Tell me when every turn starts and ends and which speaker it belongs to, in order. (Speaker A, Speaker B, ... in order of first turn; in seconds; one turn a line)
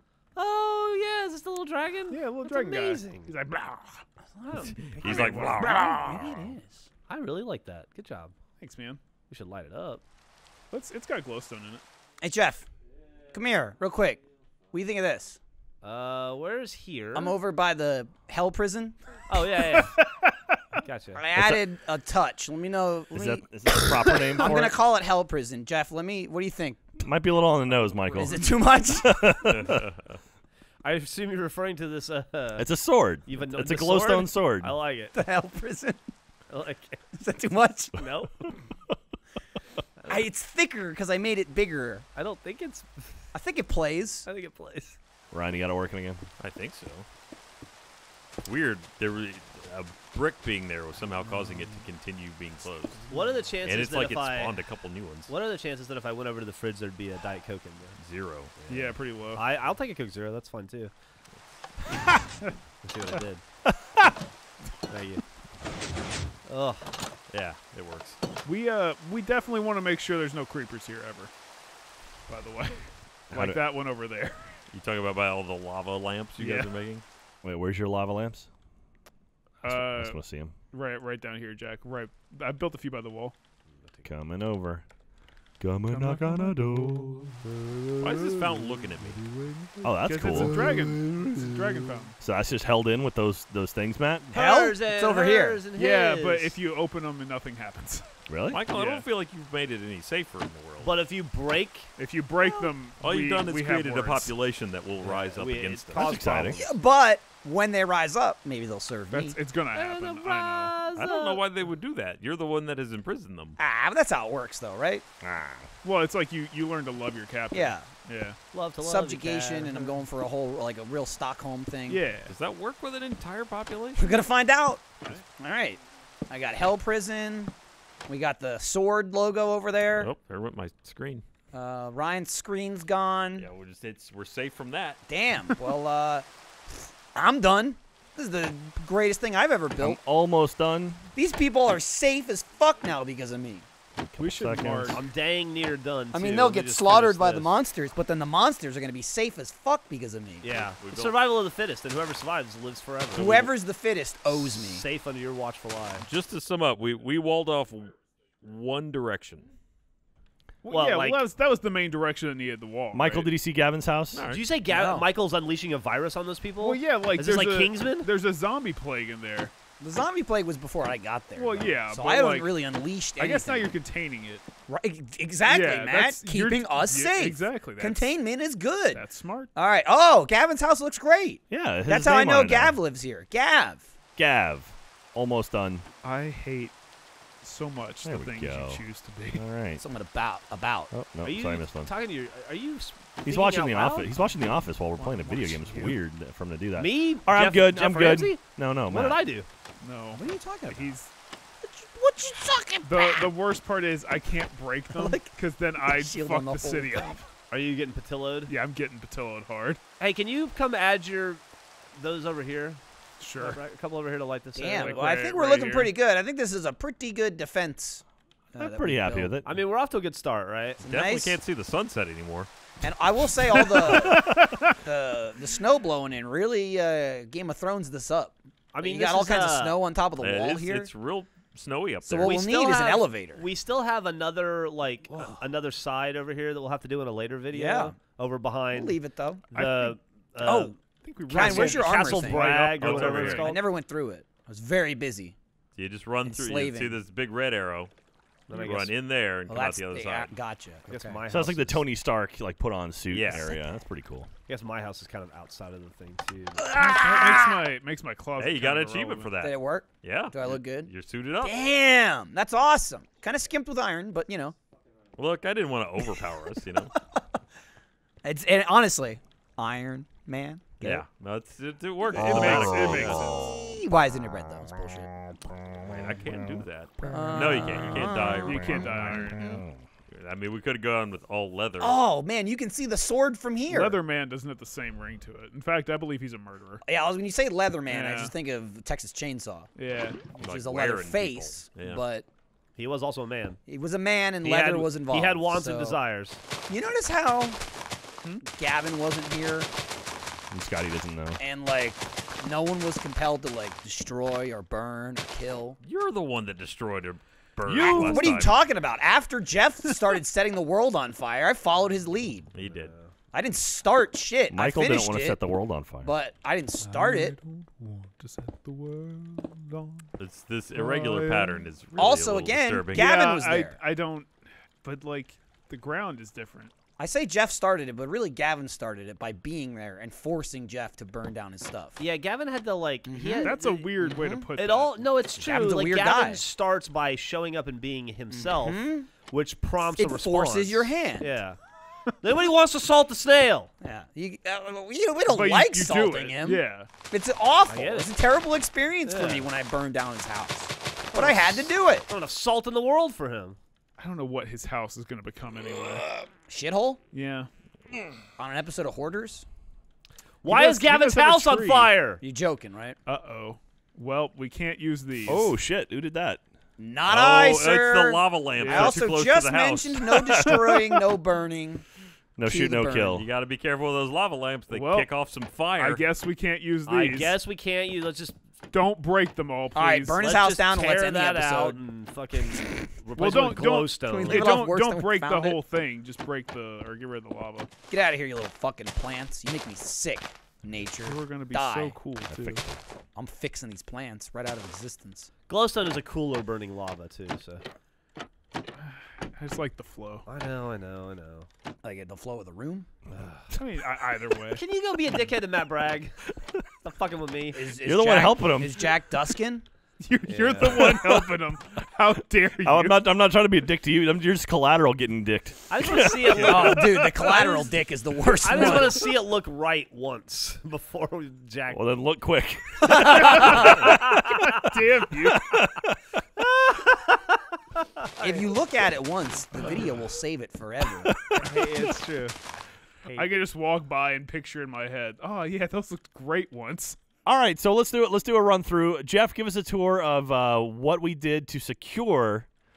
Speaker A: 0.4-3.3
Speaker B: 2.1-4.0
Speaker A: 4.4-6.0
Speaker C: 4.8-6.5
Speaker D: 5.0-6.9
Speaker B: 5.0-5.6
Speaker A: 7.1-8.3
Speaker B: 8.6-9.0
Speaker A: 9.3-10.0
Speaker B: 10.7-11.8
Speaker D: 12.2-12.7
Speaker D: 13.3-15.4
Speaker A: 15.8-17.4
Speaker D: 17.1-19.0
Speaker A: 19.3-20.0
Speaker B: 19.8-20.6
Speaker A: 20.8-21.2
Speaker D: 21.1-27.0
Speaker E: 21.4-21.6
Speaker E: 23.1-24.8
Speaker E: 27.0-29.9
Speaker D: 28.1-29.6
Speaker C: 29.5-30.2
Speaker A: 30.8-32.7
Speaker E: 32.6-34.8
Speaker A: 33.2-35.2
Speaker D: 35.1-36.0
Speaker A: 36.5-37.0
Speaker D: 37.2-38.1
Speaker A: 38.0-38.5
Speaker D: 40.1-42.1
Speaker A: 42.1-43.2
Speaker D: 43.3-44.3
Speaker A: 44.3-45.0
Speaker E: 45.3-46.2
Speaker C: 46.4-47.1
Speaker C: 48.4-53.1
Speaker A: 53.1-54.6
Speaker C: 53.6-55.3
Speaker A: 55.3-58.0
Speaker C: 58.0-58.5
Speaker A: 58.6-60.9
Speaker B: 58.7-59.4
Speaker B: 62.0-62.5
Speaker A: 62.8-63.4
Speaker A: 64.9-65.2
Speaker A: 66.5-66.9
Speaker C: 67.3-68.2
Speaker B: 68.5-71.3
Speaker B: 72.3-74.6
Speaker E: 73.3-73.6
Speaker C: 74.7-77.0
Speaker B: 76.4-76.7
Speaker E: 77.4-78.5
Speaker B: 79.6-80.2
Speaker E: 79.6-80.5
Speaker B: 80.7-83.3
Speaker A: 83.8-84.0
Speaker E: 84.0-84.8
Speaker E: 85.6-88.2
Speaker B: 85.9-87.2
Speaker C: 88.0-89.2
Speaker E: 89.8-94.3
Speaker B: 89.8-92.2
Speaker D: 94.3-95.6
Speaker A: 94.3-96.6
Speaker B: 95.7-98.1
Speaker E: 98.3-98.6
Speaker C: 98.5-100.9
Speaker B: 98.7-99.0
Speaker A: 100.8-101.9
Speaker B: 102.0-104.3
Speaker C: 103.0-106.5
Speaker A: 105.0-106.7
Speaker E: 106.0-106.6
Speaker D: 106.5-109.4
Speaker B: 109.1-110.8
Speaker A: 109.7-111.4
Speaker C: 111.0-113.6
Speaker D: 113.6-115.0
Speaker E: 115.2-115.7
Speaker B: 115.8-118.4
Speaker D: 117.5-117.9
Speaker A: 118.5-120.0
Speaker D: 118.8-122.0
Speaker B: 121.9-122.3
Speaker C: 122.3-124.2
Speaker D: 124.0-127.5
Speaker D: 128.1-130.1
Speaker C: 129.9-131.2
Speaker D: 131.5-133.5
Speaker C: 133.4-135.0
Speaker D: 135.1-140.0
Speaker E: 139.8-141.1
Speaker D: 141.1-143.7
Speaker E: 144.0-145.0
Speaker B: 144.2-145.0
Speaker A: 144.9-147.6
Speaker D: 146.1-150.5
Speaker A: 150.4-153.5
Speaker C: 150.5-151.2
Speaker D: 153.1-154.8
Speaker A: 154.3-156.1
Speaker C: 156.0-159.5
Speaker B: 160.6-163.3
Speaker A: 160.7-161.2
Speaker E: 162.9-164.3
Speaker C: 164.1-164.4
Speaker A: 164.3-168.1
Speaker D: 164.7-165.1
Speaker B: 166.6-169.5
Speaker D: 169.8-173.7
Speaker B: 171.4-172.6
Speaker B: 173.1-174.5
Speaker D: 174.7-183.9
Speaker B: 175.4-178.2
Speaker B: 178.9-179.5
Speaker E: 181.5-182.8
Speaker E: 184.2-185.9
Speaker B: 186.0-186.8
Speaker B: 187.4-189.5
Speaker E: 188.1-188.8
Speaker E: 189.3-189.8
Speaker D: 189.8-190.9
Speaker E: 190.9-191.9
Speaker A: 191.2-194.1
Speaker E: 193.2-199.2
Speaker B: 194.9-196.0
Speaker A: 196.8-199.5
Speaker B: 199.8-201.1
Speaker D: 200.1-201.0
Speaker D: 201.6-203.3
Speaker B: 202.8-207.3
Speaker D: 204.9-205.3
Speaker D: 205.8-207.2
Speaker A: 207.5-208.5
Speaker B: 208.5-209.8
Speaker A: 210.0-211.4
Speaker A: 211.9-212.8
Speaker B: 213.2-213.6
Speaker A: 213.4-215.1
Speaker D: 214.6-219.4
Speaker B: 214.7-215.9
Speaker E: 218.6-219.5
Speaker A: 219.4-220.8
Speaker D: 220.8-221.4
Speaker C: 220.8-222.5
Speaker D: 222.8-230.9
Speaker B: 223.6-224.8
Speaker A: 228.7-229.8
Speaker C: 230.2-232.4
Speaker D: 232.1-233.4
Speaker A: 232.2-239.0
Speaker D: 237.5-238.0
Speaker D: 238.7-239.5
Speaker A: 239.5-240.8
Speaker B: 239.5-239.9
Speaker D: 240.4-245.4
Speaker B: 240.8-243.5
Speaker A: 241.3-243.6
Speaker C: 242.8-243.5
Speaker C: 245.8-247.9
Speaker D: 246.3-247.0
Speaker A: 248.5-248.9
Speaker C: 248.5-250.3
Speaker D: 249.5-251.2
Speaker A: 250.9-251.8
Speaker E: 251.3-254.3
Speaker C: 253.1-253.5
Speaker D: 253.2-253.6
Speaker A: 254.5-256.7
Speaker D: 256.6-257.7
Speaker B: 256.7-259.3
Speaker C: 258.4-261.6
Speaker D: 259.4-260.9
Speaker D: 261.4-264.6
Speaker C: 265.2-266.9
Speaker D: 268.2-271.0
Speaker C: 270.8-273.4
Speaker B: 272.1-273.5
Speaker D: 272.2-275.1
Speaker C: 275.9-279.3
Speaker D: 277.0-279.7
Speaker B: 277.1-277.4
Speaker B: 278.4-279.6
Speaker C: 280.1-282.0
Speaker D: 281.8-284.0
Speaker B: 283.7-286.8
Speaker D: 286.8-289.7
Speaker B: 287.9-288.3
Speaker B: 289.8-290.3
Speaker D: 290.3-292.3
Speaker C: 290.4-292.0
Speaker A: 292.8-293.6
Speaker D: 293.7-296.0
Speaker A: 294.4-296.4
Speaker D: 296.7-297.6
Speaker D: 298.4-299.7
Speaker E: 300.5-301.4
Speaker D: 301.4-305.8
Speaker C: 305.8-308.6
Speaker D: 307.7-312.5
Speaker E: 308.0-308.4
Speaker C: 312.5-312.9
Speaker A: 312.6-313.1
Speaker D: 313.3-315.4
Speaker E: 314.5-316.1
Speaker D: 316.0-317.4
Speaker B: 316.8-320.1
Speaker C: 320.2-323.1
Speaker B: 320.8-321.7
Speaker D: 322.0-323.8
Speaker B: 322.9-324.3
Speaker B: 324.8-326.7
Speaker D: 327.0-332.0
Speaker A: 332.0-333.9
Speaker D: 333.1-334.5
Speaker B: 333.4-335.1
Speaker A: 334.6-341.6
Speaker D: 335.4-336.4
Speaker D: 338.3-339.1
Speaker D: 340.0-341.4
Speaker A: 342.2-343.7
Speaker D: 343.8-352.1
Speaker B: 345.3-346.9
Speaker A: 347.7-348.1
Speaker A: 349.0-349.5
Speaker A: 351.1-353.6
Speaker B: 354.0-356.2
Speaker D: 356.5-357.0
Speaker B: 357.1-357.5
Speaker D: 358.4-359.5
Speaker A: 360.4-362.2
Speaker B: 360.4-361.9
Speaker D: 362.2-363.0
Speaker B: 363.1-365.5
Speaker E: 365.3-366.4
Speaker D: 366.8-371.9
Speaker C: 367.1-370.3
Speaker B: 368.6-369.0
Speaker E: 370.2-371.0
Speaker E: 372.4-373.3
Speaker D: 372.4-373.2
Speaker C: 373.1-376.1
Speaker B: 374.7-375.1
Speaker B: 375.8-377.4
Speaker A: 376.9-378.4
Speaker B: 378.7-380.2
Speaker D: 379.8-381.8
Speaker A: 380.2-384.5
Speaker B: 383.2-387.7
Speaker D: 384.1-385.6
Speaker D: 387.9-392.0
Speaker B: 391.0-392.6
Speaker E: 392.3-392.8
Speaker D: 393.1-395.3
Speaker A: 395.5-397.6
Speaker B: 398.8-400.3
Speaker A: 400.3-401.5
Speaker D: 401.8-402.9
Speaker A: 403.1-403.5
Speaker B: 403.5-404.6
Speaker A: 404.5-406.2
Speaker A: 406.8-407.6
Speaker D: 407.5-409.7
Speaker E: 407.8-408.9
Speaker B: 410.0-413.0
Speaker A: 410.3-410.9
Speaker E: 410.9-411.3
Speaker E: 412.6-416.8
Speaker A: 415.7-417.8
Speaker D: 416.3-419.1
Speaker B: 416.4-416.9
Speaker A: 418.4-421.8
Speaker B: 418.6-418.8
Speaker E: 421.7-426.0
Speaker A: 422.9-424.0
Speaker B: 423.0-425.7
Speaker A: 426.7-428.5
Speaker D: 428.2-431.2
Speaker E: 431.1-431.5
Speaker A: 431.4-432.4
Speaker A: 433.0-433.3
Speaker B: 433.1-437.0
Speaker E: 437.3-442.5